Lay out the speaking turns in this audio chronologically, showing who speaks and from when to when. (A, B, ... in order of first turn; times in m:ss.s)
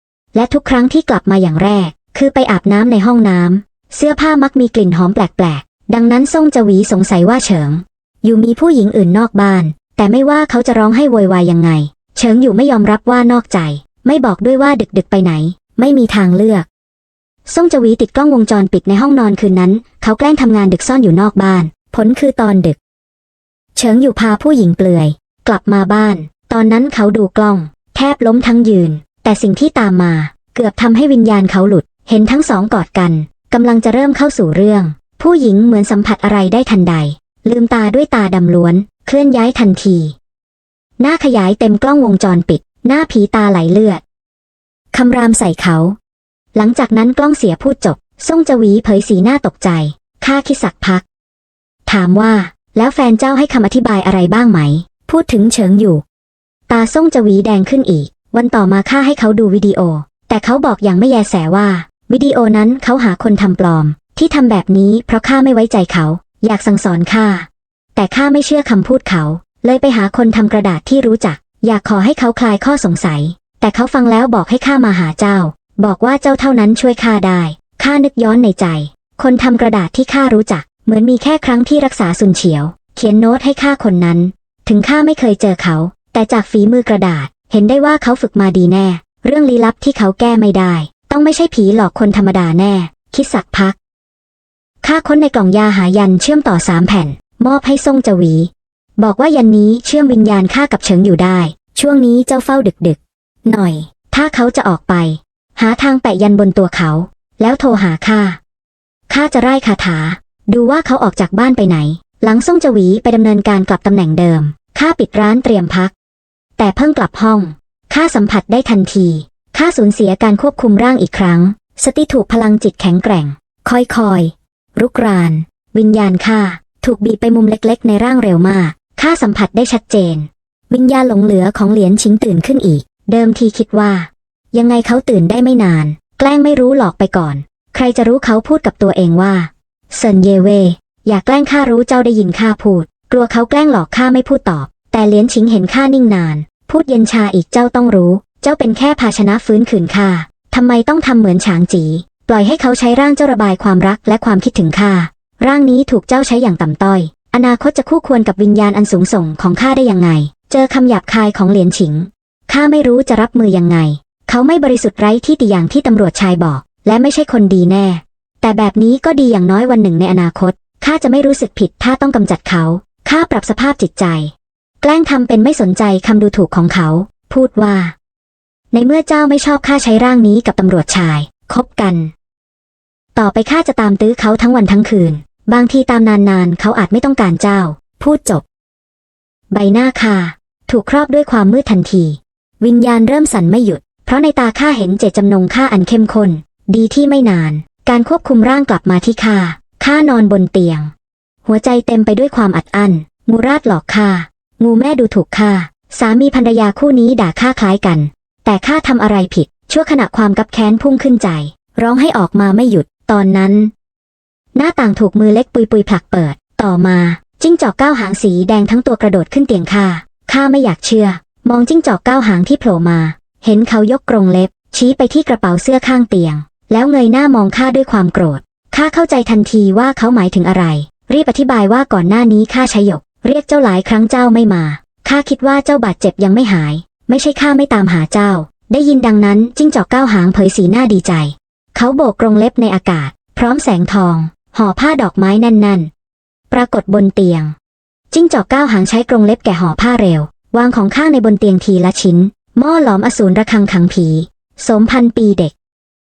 0:00.3-0:16.7 A
0:17.4-0:22.8 A
0:23.8-0:40.2 A
0:41.0-0:44.0 A
0:44.9-0:46.0 A
0:46.5-0:51.0 A
0:51.8-0:56.0 A
0:56.7-1:33.8 A
1:34.8-1:48.4 A
1:49.1-1:55.9 A
1:56.6-2:57.9 A
2:58.7-3:02.1 A
3:03.1-3:08.4 A
3:09.5-3:20.9 A
3:21.4-3:33.7 A
3:34.5-4:05.9 A
4:06.5-4:07.5 A
4:08.1-4:15.5 A